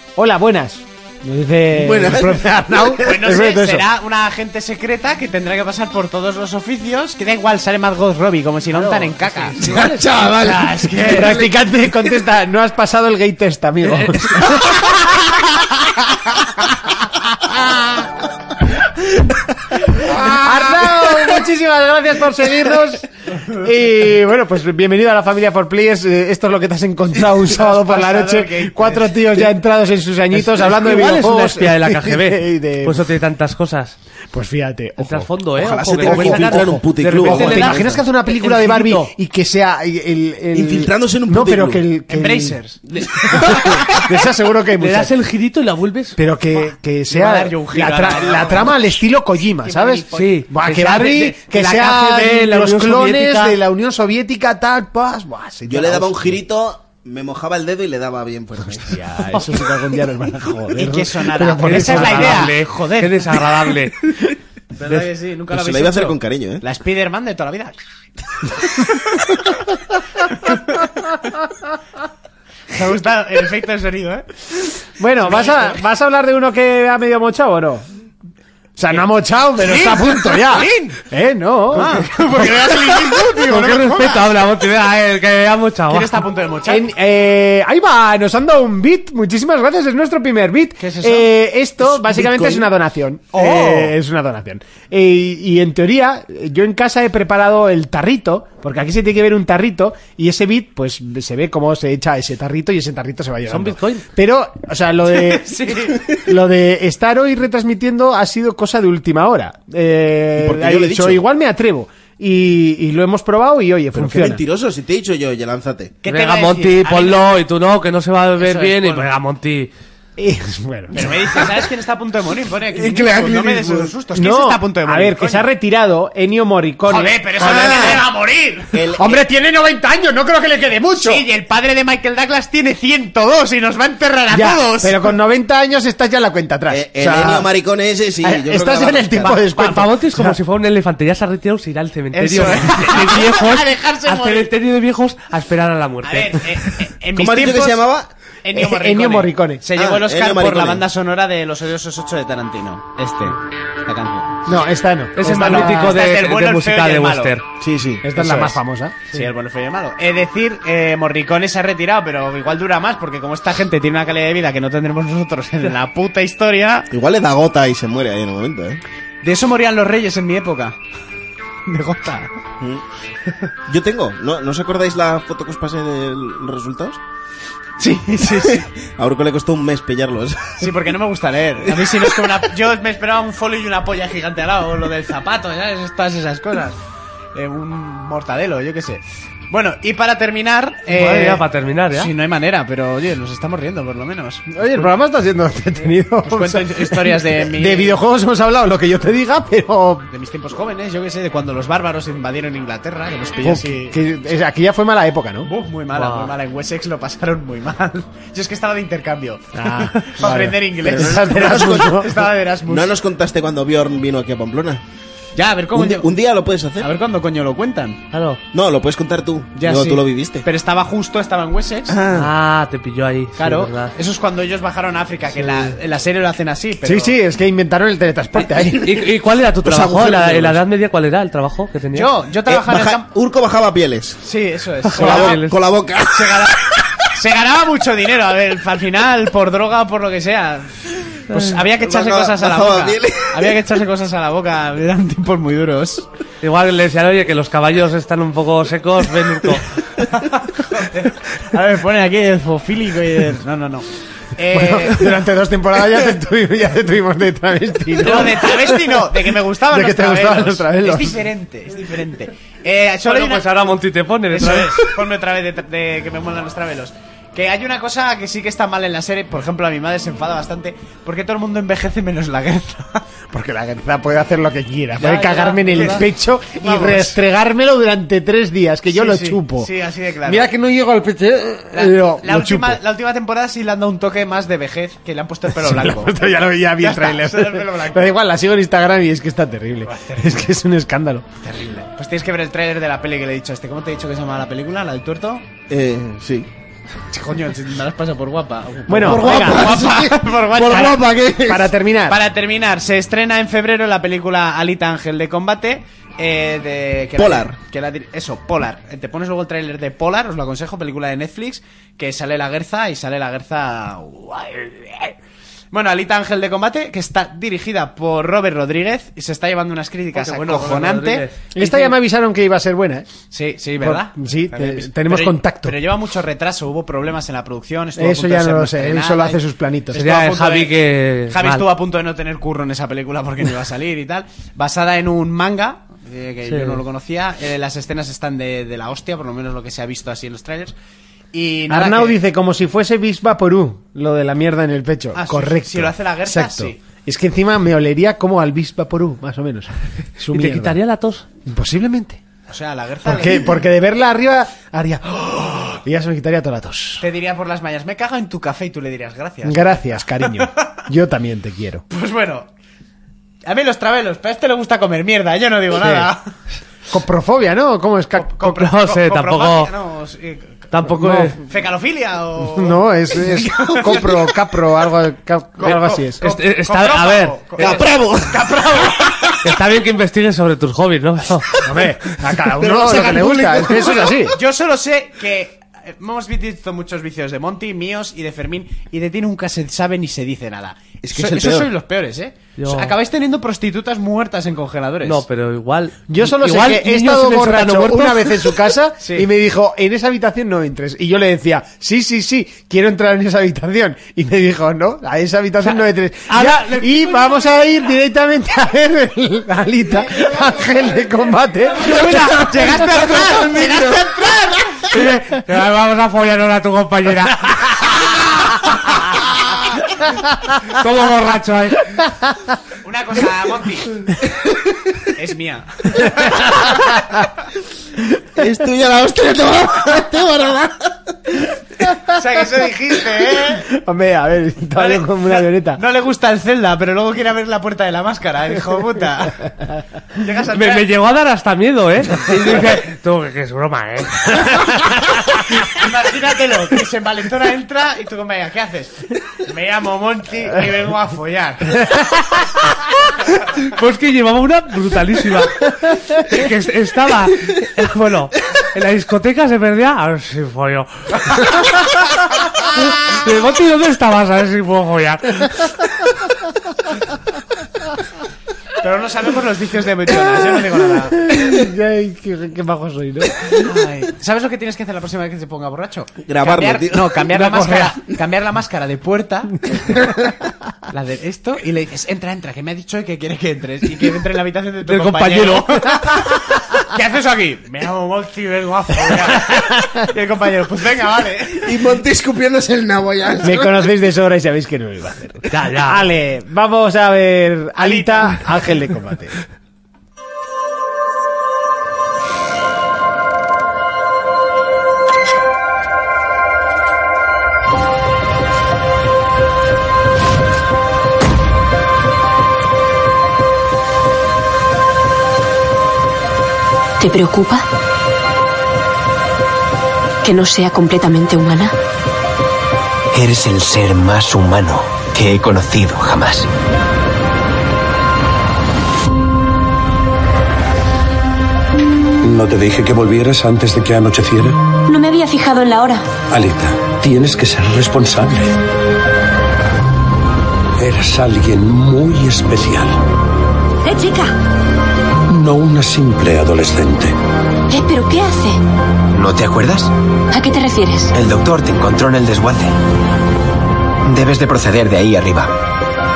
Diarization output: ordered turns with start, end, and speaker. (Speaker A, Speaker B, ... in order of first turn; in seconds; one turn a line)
Speaker A: 0.2-3.9
Speaker B: 1.7-3.2
Speaker C: 3.0-11.4
Speaker D: 8.7-9.7
Speaker B: 9.6-11.5
Speaker A: 11.1-14.5
Speaker A: 20.1-33.0
Speaker C: 27.3-29.5
Speaker D: 30.3-34.0
Speaker A: 34.3-35.3
Speaker D: 35.0-39.1
Speaker B: 35.6-38.0
Speaker A: 36.0-42.6
Speaker B: 40.5-41.9
Speaker C: 42.1-44.0
Speaker A: 43.4-45.1
Speaker D: 44.8-46.2
Speaker A: 46.2-56.4
Speaker C: 47.1-49.0
Speaker C: 49.6-52.2
Speaker D: 50.1-51.1
Speaker D: 51.7-53.6
Speaker B: 55.7-59.0
Speaker A: 58.9-62.5
Speaker C: 59.0-59.6
Speaker C: 60.7-63.5
Speaker D: 61.6-64.1
Speaker C: 64.8-67.8
Speaker D: 64.8-65.1
Speaker B: 65.5-66.6
Speaker C: 70.3-70.9
Speaker C: 72.7-74.3
Speaker A: 75.0-77.8
Speaker C: 75.2-75.8
Speaker A: 78.8-82.0
Speaker C: 79.6-81.0
Speaker C: 81.7-84.4
Speaker D: 82.4-86.3
Speaker C: 85.9-86.9
Speaker A: 86.7-114.4
Speaker C: 90.8-91.3
Speaker C: 92.0-92.6
Speaker C: 93.3-94.0
Speaker D: 103.5-104.1
Speaker C: 105.1-106.1
Speaker B: 110.4-111.2
Speaker B: 113.9-116.0
Speaker C: 116.0-117.4
Speaker D: 116.0-119.7
Speaker C: 118.4-119.1
Speaker A: 120.2-121.2
Speaker C: 120.9-125.5
Speaker B: 122.7-123.9
Speaker A: 124.1-128.0
Speaker C: 126.9-128.9
Speaker B: 127.4-128.0
Speaker B: 128.7-129.2
Speaker A: 129.0-131.2
Speaker C: 131.0-135.1
Speaker A: 134.3-137.5
Speaker B: 136.7-139.4
Speaker A: 138.2-140.4
Speaker D: 139.5-146.5
Speaker C: 142.1-144.5
Speaker C: 146.0-147.9
Speaker B: 147.1-148.1
Speaker C: 148.4-154.4
Speaker A: 148.6-149.6
Speaker B: 149.8-150.9
Speaker A: 154.5-156.0
Speaker D: 155.2-157.4
Speaker C: 155.3-157.4
Speaker B: 157.6-158.1
Speaker A: 158.0-159.1
Speaker C: 158.2-158.5
Speaker C: 159.1-166.9
Speaker B: 166.9-168.8
Speaker C: 169.2-170.8
Speaker C: 171.7-172.3
Speaker B: 173.7-177.0
Speaker C: 177.8-178.7
Speaker B: 178.2-180.8
Speaker C: 180.6-186.8
Speaker B: 181.7-182.4
Speaker C: 187.3-194.5
Speaker D: 190.9-192.1
Speaker A: 194.5-200.1
Speaker C: 196.3-198.0
Speaker C: 200.1-204.0
Speaker A: 203.4-205.5
Speaker C: 205.4-212.9
Speaker D: 205.9-206.3
Speaker A: 209.6-212.1
Speaker B: 210.9-214.8
Speaker C: 215.4-216.1
Speaker B: 215.7-216.9
Speaker C: 216.8-218.1
Speaker D: 218.1-218.4
Speaker B: 218.5-220.5
Speaker C: 219.6-222.0
Speaker B: 221.9-222.3
Speaker D: 222.1-223.9
Speaker C: 223.4-227.2
Speaker A: 226.8-228.9
Speaker D: 228.7-232.1
Speaker B: 229.6-230.6
Speaker C: 231.9-233.0
Speaker B: 232.5-234.2
Speaker C: 234.2-235.4
Speaker D: 234.9-235.6
Speaker B: 234.9-236.6
Speaker C: 236.1-240.7
Speaker D: 241.3-241.6
Speaker C: 241.3-246.1
Speaker B: 241.8-243.6
Speaker D: 246.4-249.8
Speaker C: 250.1-255.2
Speaker A: 254.5-259.1
Speaker C: 258.0-263.5
Speaker A: 259.7-261.2
Speaker D: 263.1-264.9
Speaker C: 264.3-273.0
Speaker A: 273.3-279.7
Speaker C: 275.0-277.2
Speaker D: 275.7-276.0
Speaker C: 278.9-280.5
Speaker A: 280.3-282.8
Speaker C: 281.8-286.2
Speaker A: 285.5-291.3
Speaker C: 286.8-288.1
Speaker C: 289.9-290.4
Speaker C: 291.4-295.5
Speaker B: 295.7-296.5
Speaker C: 297.1-301.0
Speaker A: 298.9-299.8
Speaker B: 299.0-301.7
Speaker A: 301.4-302.2
Speaker C: 302.1-315.1
Speaker B: 307.2-307.6
Speaker C: 315.7-321.9
Speaker D: 320.1-321.5
Speaker A: 321.6-323.1
Speaker C: 323.3-329.4
Speaker A: 323.8-325.8
Speaker A: 328.0-330.1
Speaker C: 329.9-340.7
Speaker D: 329.9-331.7
Speaker D: 336.5-336.8
Speaker C: 341.3-342.2
Speaker A: 341.7-350.8
Speaker C: 345.1-346.8
Speaker D: 350.3-351.3
Speaker A: 351.5-352.2
Speaker C: 352.5-353.6
Speaker A: 353.1-357.0
Speaker C: 357.0-360.8
Speaker A: 359.4-361.9
Speaker C: 361.9-362.5
Speaker C: 363.4-366.3
Speaker A: 365.8-366.1
Speaker A: 366.9-368.4
Speaker C: 368.2-370.7
Speaker D: 368.4-369.7
Speaker D: 370.7-371.4
Speaker A: 370.9-371.4
Speaker C: 371.4-374.2
Speaker A: 372.6-376.2
Speaker C: 375.6-379.4
Speaker D: 376.2-377.8
Speaker B: 377.6-379.3
Speaker D: 379.4-381.6
Speaker A: 381.6-384.4
Speaker B: 382.6-384.1
Speaker C: 382.7-395.2
Speaker B: 391.0-391.7
Speaker D: 392.6-392.9
Speaker D: 395.0-398.6
Speaker A: 396.1-412.0
Speaker C: 399.0-399.3
Speaker D: 406.3-407.2
Speaker C: 411.8-414.9
Speaker B: 413.0-414.0
Speaker D: 414.9-417.9
Speaker D: 420.6-422.1
Speaker C: 422.8-424.1
Speaker C: 425.1-426.7
Speaker B: 428.4-431.0
Speaker C: 432.1-433.7
Speaker A: 433.6-435.8
Speaker C: 434.8-439.5
Speaker C: 440.1-440.9
Speaker D: 440.5-444.9
Speaker C: 445.6-451.9
Speaker D: 453.7-465.7
Speaker C: 468.8-471.6
Speaker A: 471.2-473.6
Speaker C: 473.5-479.8
Speaker B: 476.2-477.3
Speaker D: 477.3-478.0
Speaker C: 480.9-491.8
Speaker D: 484.9-486.1
Speaker B: 491.6-493.9
Speaker A: 493.4-499.4
Speaker D: 495.5-496.1
Speaker C: 497.8-498.4
Speaker E: 517.0-517.7
Speaker E: 520.2-521.7
Speaker F: 523.1-526.5
Speaker G: 532.2-534.6
Speaker E: 534.9-536.1
Speaker G: 536.3-538.6
Speaker G: 540.8-543.0
Speaker E: 543.9-544.2
Speaker G: 545.3-547.2
Speaker E: 547.7-548.6
Speaker F: 549.1-549.9
Speaker E: 550.3-551.1
Speaker F: 551.1-552.7
Speaker F: 554.1-555.5